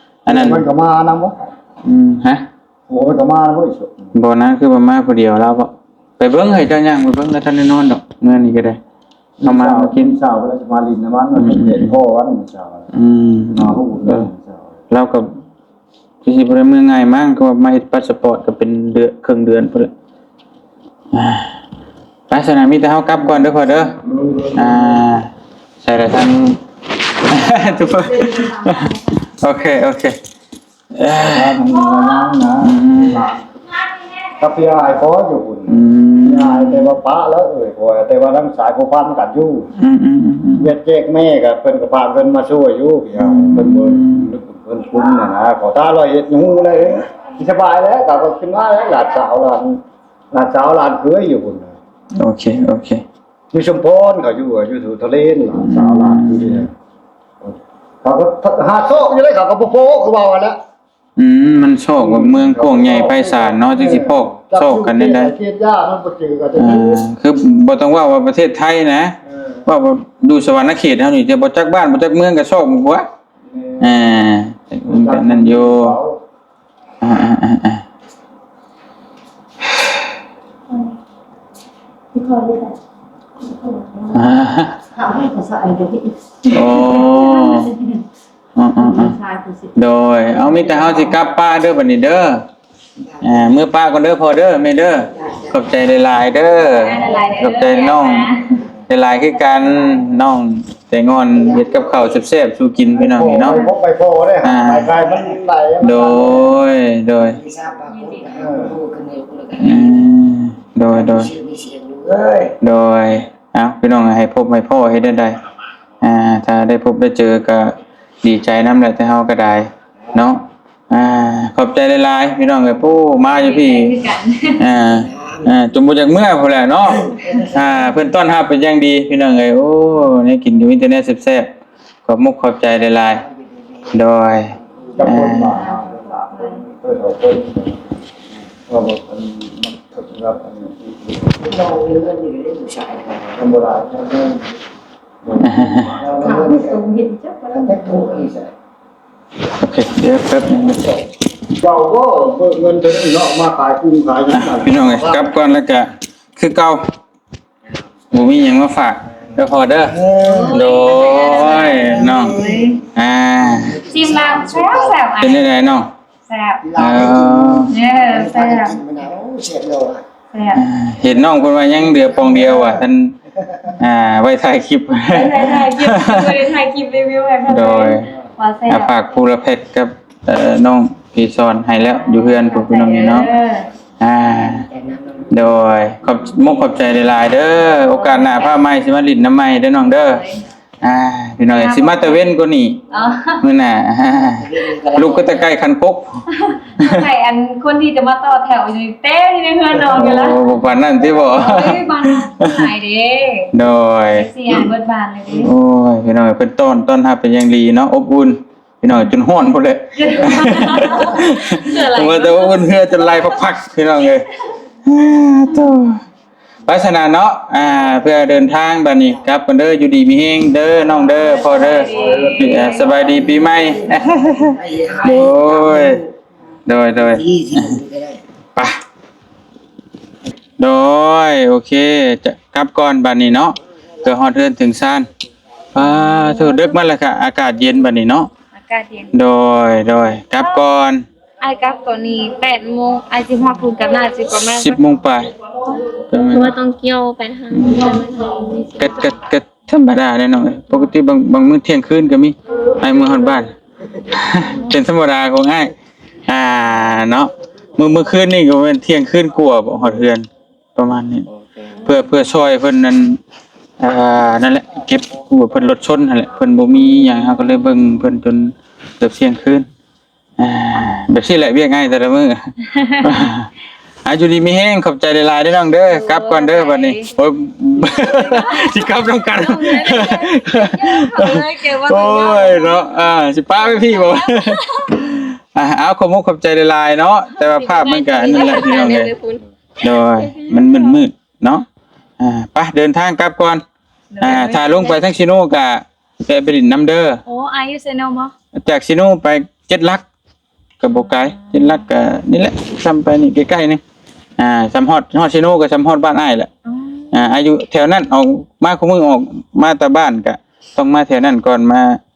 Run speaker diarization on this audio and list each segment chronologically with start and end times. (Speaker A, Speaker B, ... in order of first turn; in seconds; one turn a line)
Speaker A: 0.3-0.6
Speaker B: 0.3-1.3
Speaker A: 1.9-2.4
Speaker B: 2.9-4.1
Speaker A: 4.1-8.8
Speaker B: 9.4-12.9
Speaker A: 9.4-10.1
Speaker A: 11.4-12.0
Speaker A: 12.9-14.3
Speaker B: 13.5-14.6
Speaker A: 14.9-15.3
Speaker A: 16.2-19.9
Speaker A: 21.1-21.6
Speaker A: 22.3-24.0
Speaker B: 24.0-25.0
Speaker A: 24.5-25.3
Speaker A: 25.8-26.6
Speaker A: 27.2-30.2
Speaker C: 28.2-28.9
Speaker A: 30.9-31.6
Speaker B: 31.1-33.3
Speaker A: 32.6-33.3
Speaker B: 34.4-35.7
Speaker A: 35.7-36.9
Speaker B: 36.2-39.7
Speaker A: 39.8-40.7
Speaker B: 40.6-49.8
Speaker A: 43.2-44.3
Speaker B: 50.3-51.7
Speaker A: 52.1-53.0
Speaker B: 53.5-56.7
Speaker A: 55.6-56.6
Speaker B: 57.4-60.6
Speaker A: 61.2-65.3
Speaker B: 62.0-67.0
Speaker A: 66.6-73.1
Speaker B: 73.6-74.0
Speaker A: 73.8-76.0
Speaker B: 74.9-76.2
Speaker A: 77.0-77.8
Speaker C: 82.1-82.8
Speaker C: 83.5-84.2
Speaker A: 84.1-84.8
Speaker C: 85.0-88.0
Speaker A: 86.5-87.7
Speaker A: 88.5-89.2
Speaker C: 88.8-89.7
Speaker A: 89.7-92.4
Speaker C: 90.4-91.1
Speaker A: 93.2-98.3
Speaker C: 96.7-98.7
Speaker A: 98.9-103.6
Speaker B: 103.0-106.5
Speaker A: 104.4-104.9
Speaker A: 105.8-107.4
Speaker D: 107.5-109.8
Speaker C: 107.9-108.4
Speaker B: 108.4-108.8
Speaker A: 109.5-111.3
Speaker D: 111.1-112.5
Speaker A: 112.6-115.4
Speaker A: 116.0-124.0
Speaker C: 123.3-124.6
Speaker A: 124.6-131.5
Speaker A: 132.1-133.2
Speaker A: 133.9-135.6
Speaker B: 135.0-137.8
Speaker C: 136.3-136.6
Speaker B: 138.7-141.5
Speaker D: 141.6-143.2
Speaker B: 143.2-144.4
Speaker B: 145.2-146.6
Speaker A: 145.4-146.0
Speaker C: 146.2-148.1
Speaker D: 147.7-148.5
Speaker A: 149.6-150.9
Speaker B: 151.6-155.3
Speaker A: 154.3-156.8
Speaker A: 158.1-163.8
Speaker D: 160.1-160.5
Speaker C: 160.2-162.8
Speaker D: 162.1-162.5
Speaker D: 163.8-164.8
Speaker C: 163.9-165.7
Speaker A: 165.2-165.9
Speaker C: 166.3-166.8
Speaker A: 166.7-167.7
Speaker D: 166.8-170.0
Speaker C: 167.7-168.8
Speaker C: 170.3-170.6
Speaker A: 170.5-176.4
Speaker C: 175.1-179.0
Speaker A: 177.5-178.1
Speaker A: 178.7-183.3
Speaker C: 182.0-183.7
Speaker A: 184.0-184.7
Speaker D: 184.7-185.3
Speaker A: 185.3-190.2
Speaker C: 187.9-188.6
Speaker C: 190.1-190.4
Speaker A: 190.8-192.8
Speaker C: 191.5-192.3
Speaker C: 192.9-193.5
Speaker A: 193.4-196.1
Speaker D: 194.5-195.4
Speaker C: 196.4-200.6
Speaker A: 196.8-197.1
Speaker A: 199.8-202.7
Speaker C: 201.2-203.5
Speaker A: 203.5-204.7
Speaker C: 204.1-205.5
Speaker A: 205.3-214.3
Speaker C: 210.0-213.3
Speaker A: 214.9-216.0
Speaker A: 216.7-226.0
Speaker C: 221.1-223.5
Speaker D: 224.4-225.9
Speaker A: 226.7-227.8
Speaker D: 227.3-228.1
Speaker A: 230.6-235.1
Speaker A: 235.8-238.3
Speaker C: 235.9-236.8
Speaker C: 238.6-239.1
Speaker A: 239.1-241.1
Speaker C: 241.4-244.8
Speaker A: 244.5-245.3
Speaker A: 246.0-246.6
Speaker C: 246.3-248.7
Speaker A: 247.5-248.0
Speaker A: 248.7-255.7
Speaker A: 256.3-261.3
Speaker A: 261.8-263.2
Speaker A: 263.8-269.7
Speaker A: 270.4-273.5
Speaker A: 274.0-289.1
Speaker C: 275.9-277.1
Speaker C: 277.9-283.0
Speaker C: 283.6-285.0
Speaker C: 287.4-291.0
Speaker A: 289.8-291.7
Speaker A: 292.2-293.6
Speaker C: 294.1-294.9
Speaker A: 294.2-297.2
Speaker C: 297.3-298.3
Speaker A: 298.6-300.0
Speaker A: 300.8-303.8
Speaker C: 300.9-301.5
Speaker A: 304.4-306.5
Speaker C: 306.7-307.1
Speaker A: 307.1-312.0